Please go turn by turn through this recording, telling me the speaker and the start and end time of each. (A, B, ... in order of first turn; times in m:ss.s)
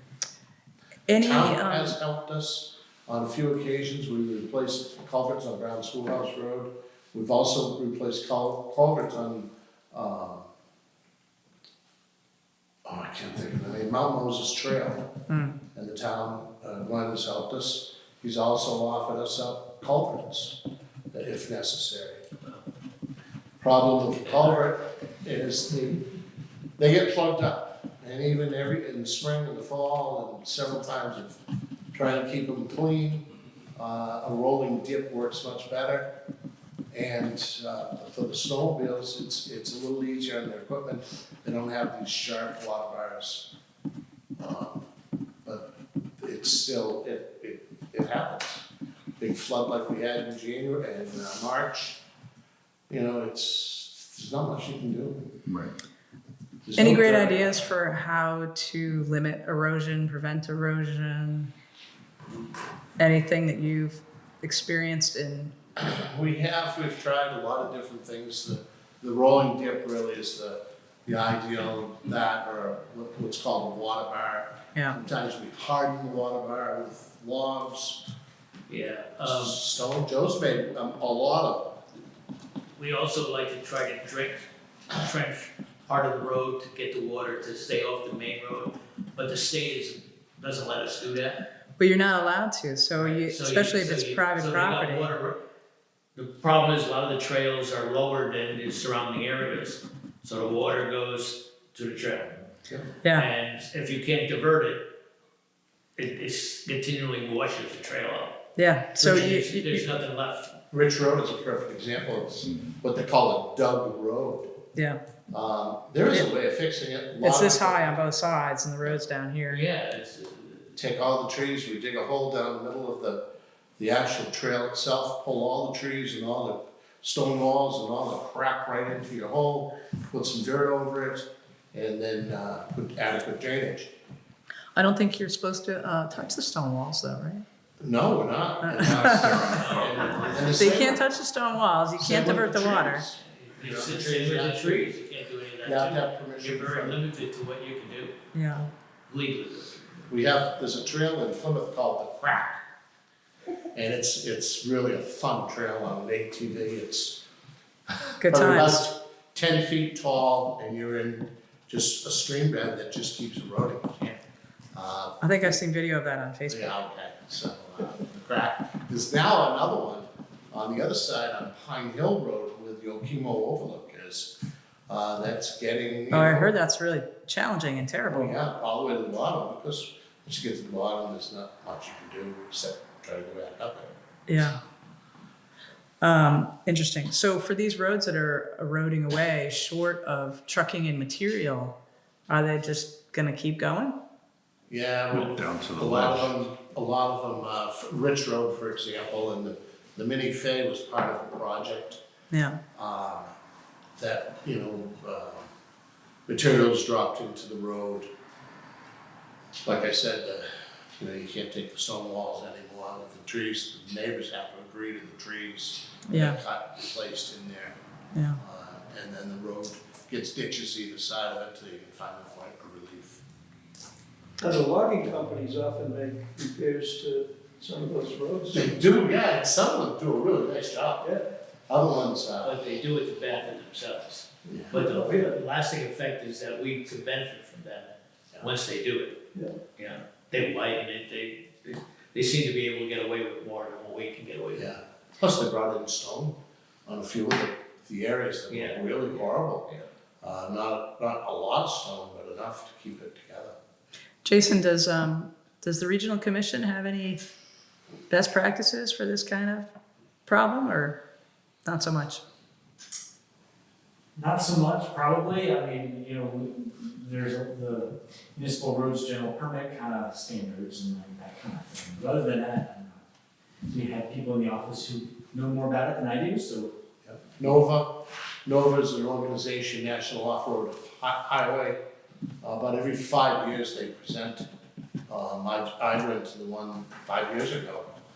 0:01.1-0:01.9 A
0:01.2-0:10.5 B
0:12.8-0:15.1 B
0:15.3-0:15.6 A
0:15.7-0:20.6 B
0:21.1-0:22.2 B
0:23.6-0:26.0 B
0:24.2-0:24.6 C
0:26.8-0:31.4 B
0:31.9-0:36.1 B
0:36.9-0:43.5 B
0:44.4-0:44.8 B
0:46.2-0:48.6 B
0:49.2-0:52.0 B
0:52.9-0:55.3 B
0:55.5-0:55.7 D
0:56.6-0:57.7 B
0:56.8-1:01.5 A
1:03.0-1:05.5 A
1:05.8-1:18.0 B
1:18.7-1:19.6 C
1:19.2-1:21.8 B
1:22.8-1:31.4 C
1:31.8-1:35.1 A
1:33.0-1:35.4 C
1:36.1-1:42.5 C
1:43.0-1:43.3 A
1:43.1-1:44.8 C
1:46.0-1:48.4 C
1:48.6-1:49.8 A
1:49.0-1:50.5 C
1:50.7-1:54.5 B
1:55.3-1:58.0 B
1:57.2-1:59.6 A
1:59.5-2:00.7 C
2:00.8-2:03.2 B
2:03.8-2:13.9 B
2:14.8-2:17.4 A
2:17.8-2:21.0 B
2:18.6-2:19.5 A
2:18.8-2:20.6 D
2:19.4-2:20.5 C
2:20.5-2:23.0 A
2:22.0-2:24.9 B
2:23.2-2:28.2 C
2:25.6-2:27.0 B
2:28.3-2:28.7 A
2:29.1-2:30.1 C
2:30.1-2:32.6 B
2:33.7-2:37.2 B
2:38.0-2:44.1 B
2:38.2-2:38.8 A
2:44.7-2:45.6 B
2:45.2-2:46.8 A
2:46.5-2:54.3 B
2:54.9-2:56.5 B
2:56.1-2:58.4 A
2:58.1-3:03.9 B
3:04.3-3:04.6 A
3:06.0-3:11.8 A
3:12.3-3:14.0 A
3:14.7-3:22.0 B
3:15.1-3:16.4 D
3:22.3-3:22.6 A
3:22.8-3:23.3 B
3:24.0-3:25.5 B
3:26.3-3:28.1 B
3:29.6-3:30.5 B
3:31.0-3:37.8 B
3:36.1-3:36.4 A
3:38.4-3:43.2 B
3:44.4-3:48.7 E
3:48.5-3:51.1 B
3:51.7-3:52.6 B
3:52.4-3:59.2 C
3:54.5-3:54.7 B
3:54.7-3:55.4 E
3:59.8-4:04.7 C
4:04.5-4:09.7 B
4:08.5-4:09.8 C
4:10.2-4:13.6 B
4:14.2-4:17.2 A
4:18.1-4:19.7 A
4:20.3-4:21.0 A
4:21.6-4:22.2 A
4:24.2-4:33.0 F
4:33.7-4:36.7 F
4:37.0-4:37.9 B
4:38.4-4:41.8 B
4:42.4-4:44.5 B
4:45.1-4:47.9 B